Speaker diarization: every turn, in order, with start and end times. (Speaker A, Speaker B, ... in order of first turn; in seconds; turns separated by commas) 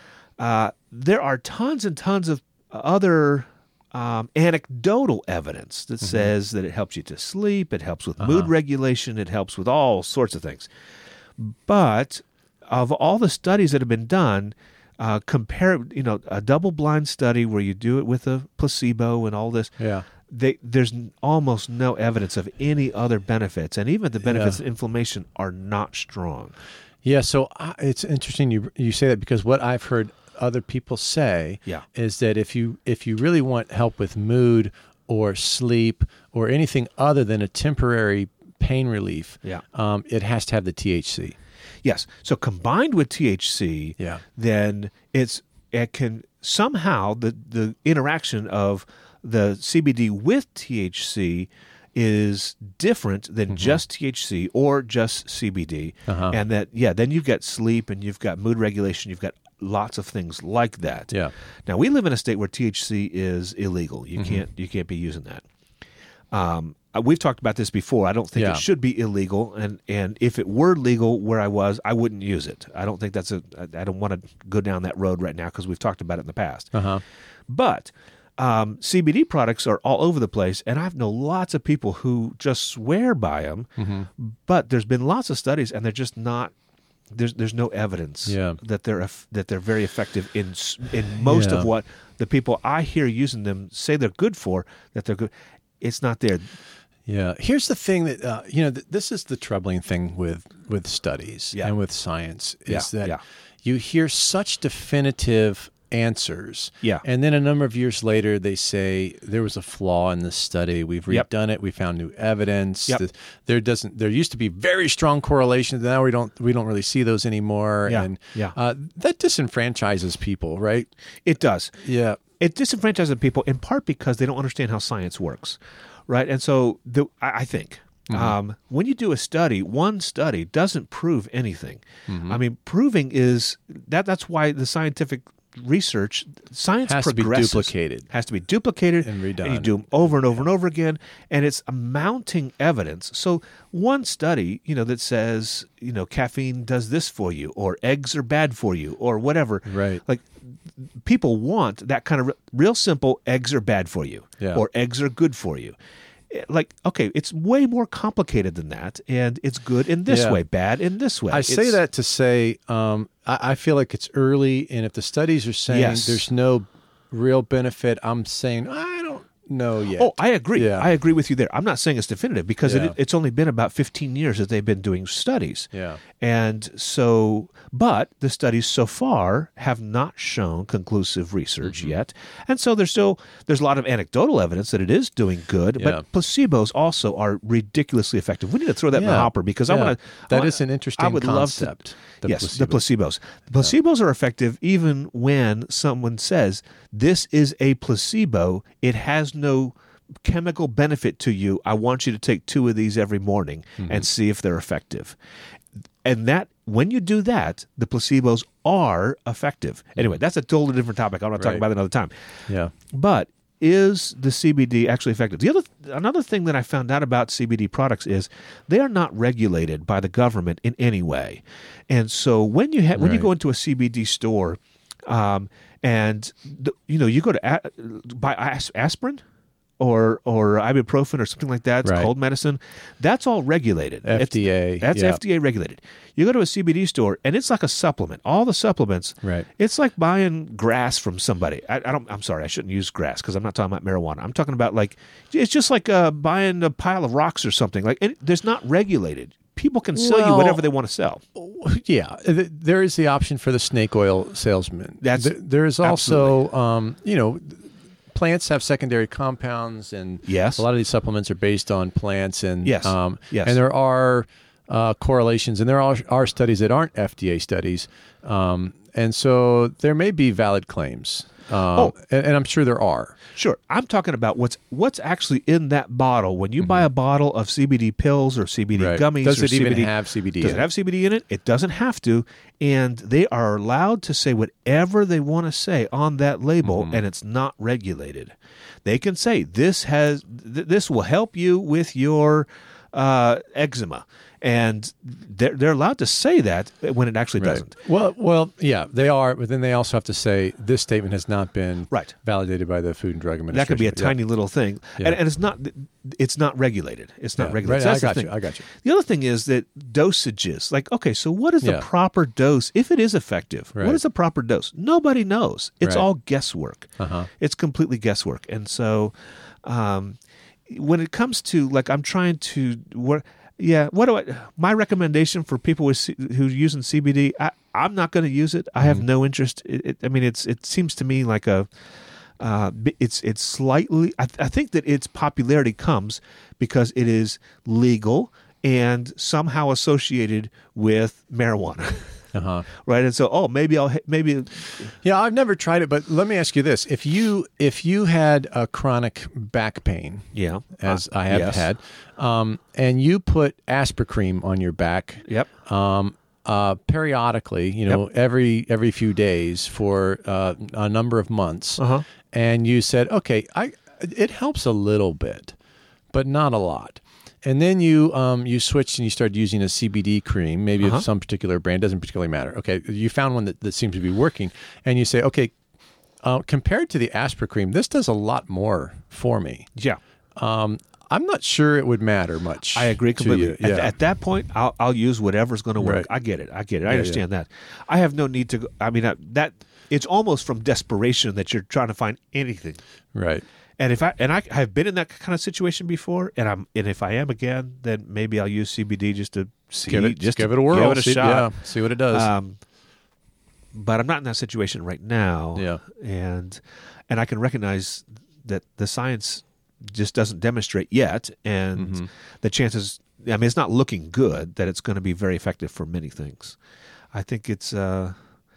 Speaker A: 0.4-10.7, Speaker B: 8.2-8.5, Speaker A: 11.4-19.7, Speaker B: 19.8-20.0, Speaker A: 20.3-26.6, Speaker B: 24.2-24.6, Speaker B: 27.0-41.4, Speaker A: 41.8-61.1, Speaker B: 53.5-53.8, Speaker B: 56.1-56.4, Speaker A: 61.7-65.4, Speaker B: 64.2-64.4, Speaker A: 66.3-76.7, Speaker B: 68.3-68.6, Speaker B: 76.7-77.0, Speaker A: 77.5-86.5, Speaker B: 83.8-84.1, Speaker A: 87.1-96.5, Speaker B: 88.2-88.6, Speaker B: 91.2-91.7, Speaker B: 97.0-120.9, Speaker A: 102.7-103.2, Speaker A: 117.9-118.5, Speaker A: 121.2-121.8, Speaker B: 121.8-122.2, Speaker A: 122.4-155.8, Speaker B: 128.1-128.3, Speaker B: 132.1-132.4, Speaker B: 136.8-138.1, Speaker B: 139.0-140.4, Speaker B: 149.7-150.0, Speaker A: 156.3-161.8, Speaker B: 160.1-160.4, Speaker B: 161.3-170.9, Speaker A: 165.7-166.2, Speaker A: 169.9-205.2, Speaker B: 172.6-172.9, Speaker B: 175.7-176.0, Speaker B: 181.6-181.9, Speaker B: 185.8-186.0, Speaker B: 188.9-192.8, Speaker A: 206.0-212.1, Speaker B: 211.4-211.6, Speaker B: 212.5-212.7, Speaker A: 212.9-229.2, Speaker B: 222.9-223.3, Speaker A: 229.8-251.2, Speaker B: 231.8-232.1, Speaker B: 234.0-235.2, Speaker B: 249.9-250.7, Speaker B: 251.3-273.1, Speaker A: 255.0-256.4, Speaker A: 260.2-260.6, Speaker A: 262.6-263.6, Speaker A: 273.3-288.3, Speaker B: 276.6-276.9, Speaker B: 278.7-280.7, Speaker B: 286.6-287.0, Speaker A: 288.8-297.7, Speaker B: 297.4-304.2, Speaker A: 303.5-331.7, Speaker B: 307.4-308.6, Speaker B: 311.6-311.9, Speaker B: 313.7-314.0, Speaker B: 317.0-317.3, Speaker B: 328.8-329.0, Speaker A: 332.4-342.1, Speaker B: 342.3-342.7, Speaker A: 342.8-344.9, Speaker B: 344.9-365.5, Speaker A: 350.3-351.7, Speaker A: 361.8-362.0, Speaker B: 366.1-375.5, Speaker A: 370.8-371.1, Speaker B: 376.2-379.7, Speaker B: 380.4-383.9, Speaker A: 382.7-392.8, Speaker B: 385.8-386.1, Speaker B: 386.9-387.2, Speaker B: 393.1-393.4, Speaker A: 393.8-402.6, Speaker B: 399.9-402.3, Speaker A: 403.7-416.6, Speaker B: 405.5-405.8, Speaker B: 411.8-412.1, Speaker A: 417.1-418.2